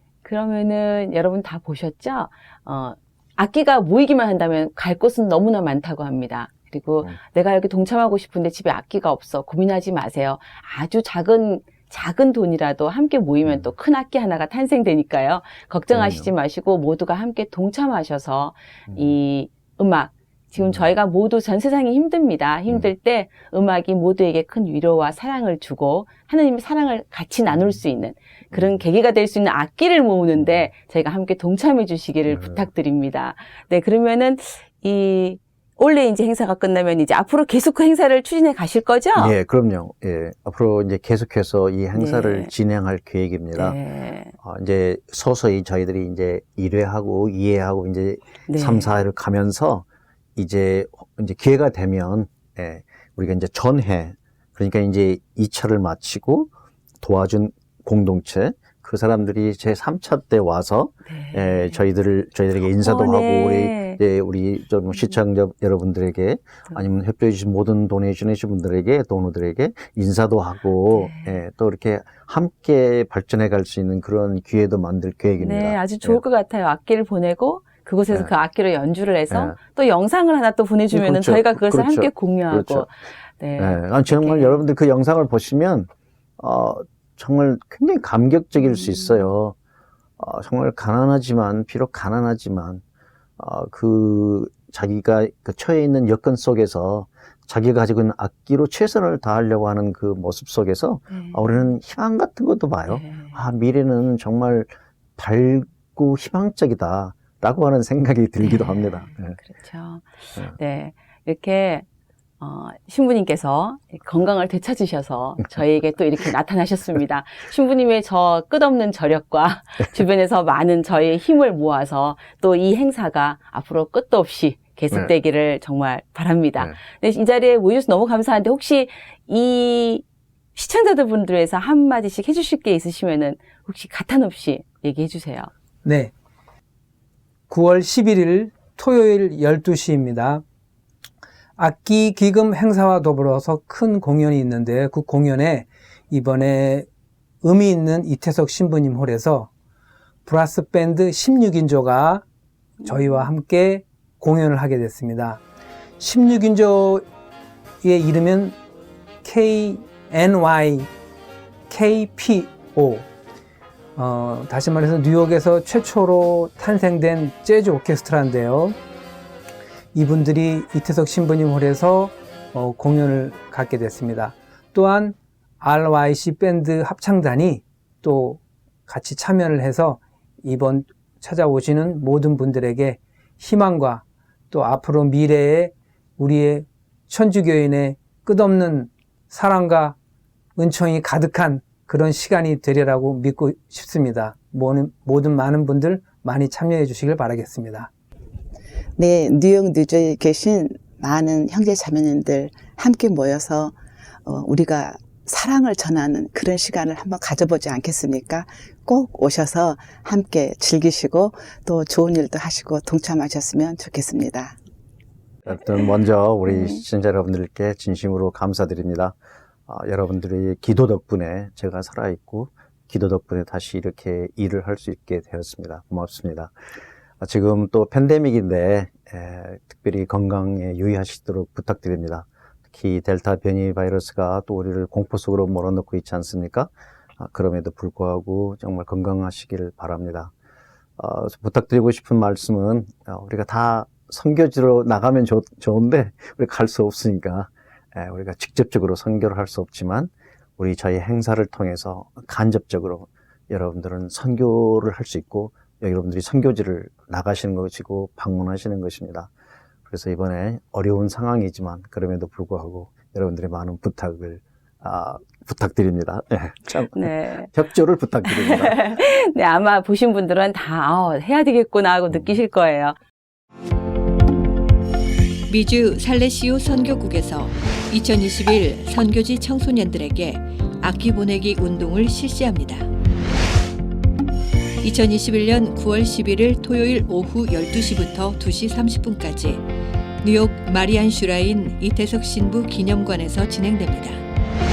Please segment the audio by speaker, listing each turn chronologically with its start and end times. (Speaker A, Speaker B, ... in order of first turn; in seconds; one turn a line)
Speaker A: 0.2-39.3
Speaker B: 15.9-16.3
Speaker B: 28.5-28.8
Speaker B: 32.3-32.6
Speaker B: 39.2-43.8
Speaker A: 41.9-42.5
Speaker A: 43.5-44.3
Speaker B: 44.4-76.2
Speaker A: 48.5-48.9
Speaker A: 61.1-61.7
Speaker A: 62.8-64.0
Speaker A: 70.9-71.3
Speaker A: 75.4-84.6
Speaker B: 79.3-79.5
Speaker B: 80.9-82.8
Speaker B: 83.6-89.5
Speaker B: 90.2-92.8
Speaker B: 93.4-109.4
Speaker A: 101.1-101.5
Speaker A: 102.9-103.3
Speaker A: 108.4-111.8
Speaker A: 112.4-130.0
Speaker A: 130.5-135.5
Speaker C: 135.8-136.1
Speaker C: 137.5-140.4
Speaker C: 141.6-146.9
Speaker C: 147.4-149.5
Speaker C: 150.2-152.2
Speaker C: 152.8-155.4
Speaker C: 156.0-157.0
Speaker C: 157.8-158.6
Speaker C: 159.2-160.9
Speaker C: 161.7-163.1
Speaker C: 163.9-168.8
Speaker C: 169.9-189.9
Speaker C: 190.6-197.9
Speaker D: 199.0-203.7
Speaker D: 204.2-214.6
Speaker B: 215.4-219.2
Speaker B: 219.7-226.5
Speaker B: 227.2-240.3
Speaker B: 241.0-259.3
Speaker B: 259.9-268.9
Speaker A: 266.9-267.5
Speaker A: 268.2-272.9
Speaker E: 275.5-282.9
Speaker E: 284.8-289.6
Speaker E: 290.2-294.2